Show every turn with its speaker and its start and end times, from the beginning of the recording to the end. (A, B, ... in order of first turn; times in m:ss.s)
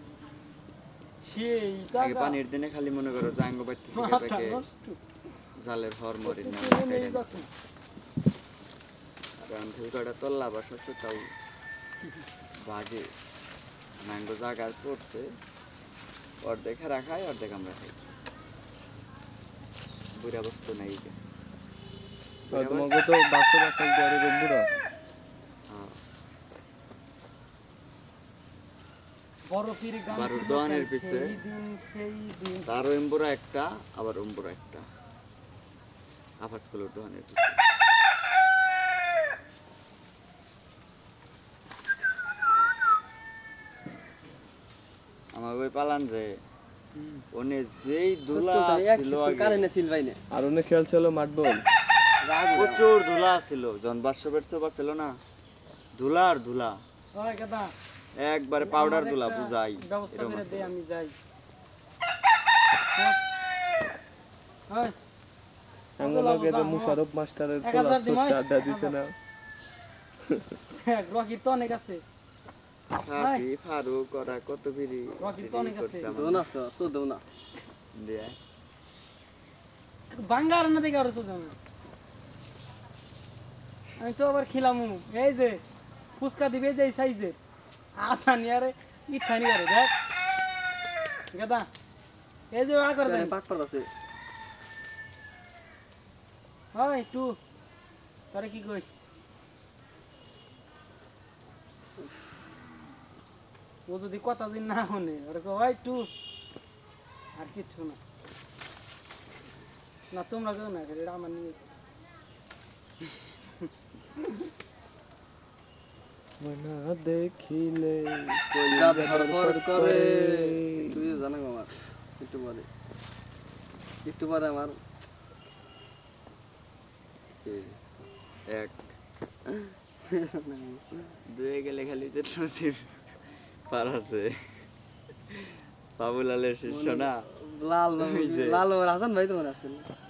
0:01.2-0:02.4 A
0:02.0-0:04.6 B
0:03.9-0:05.0 A
0:05.6-0:07.3 B
0:06.2-0:07.5 A
0:09.4-0:11.2 B
0:12.6-0:13.1 B
0:14.0-0:15.3 B
0:16.4-0:18.0 B
0:20.2-0:21.2 B
0:22.5-0:23.0 B
0:22.5-0:24.7 C
0:25.7-0:26.0 B
0:29.5-0:32.7 A
0:30.1-0:31.3 B
0:32.6-0:34.8 B
0:36.4-0:37.6 B
0:45.3-0:46.4 B
0:47.3-0:49.7 B
0:48.3-0:50.2 D
0:50.3-0:51.6 C
0:52.2-0:52.8 D
0:52.5-0:55.2 B
0:55.9-0:56.8 B
0:57.2-0:57.7 A
0:58.2-1:00.7 B
0:58.6-1:01.1 A
1:06.0-1:07.0 A
1:06.0-1:09.1 C
1:07.6-1:09.0 A
1:10.7-1:12.0 A
1:12.9-1:16.5 B
1:13.2-1:13.4 A
1:15.2-1:16.1 A
1:16.1-1:17.2 D
1:17.9-1:18.4 B
1:20.1-1:21.5 A
1:24.0-1:25.6 A
1:26.2-1:27.4 A
1:28.0-1:29.9 A
1:31.3-1:31.7 A
1:32.5-1:33.3 A
1:33.0-1:33.9 D
1:36.7-1:37.4 A
1:38.3-1:38.9 A
1:43.9-1:46.1 A
1:47.4-1:48.0 A
1:50.1-1:51.6 A
1:56.4-2:01.1 C
1:58.6-2:02.7 D
2:04.0-2:04.8 D
2:07.4-2:07.8 B
2:08.5-2:08.8 B
2:10.1-2:10.8 D
2:11.3-2:13.0 B
2:13.7-2:14.6 B
2:15.3-2:17.2 B
2:16.6-2:19.9 D
2:18.0-2:18.6 B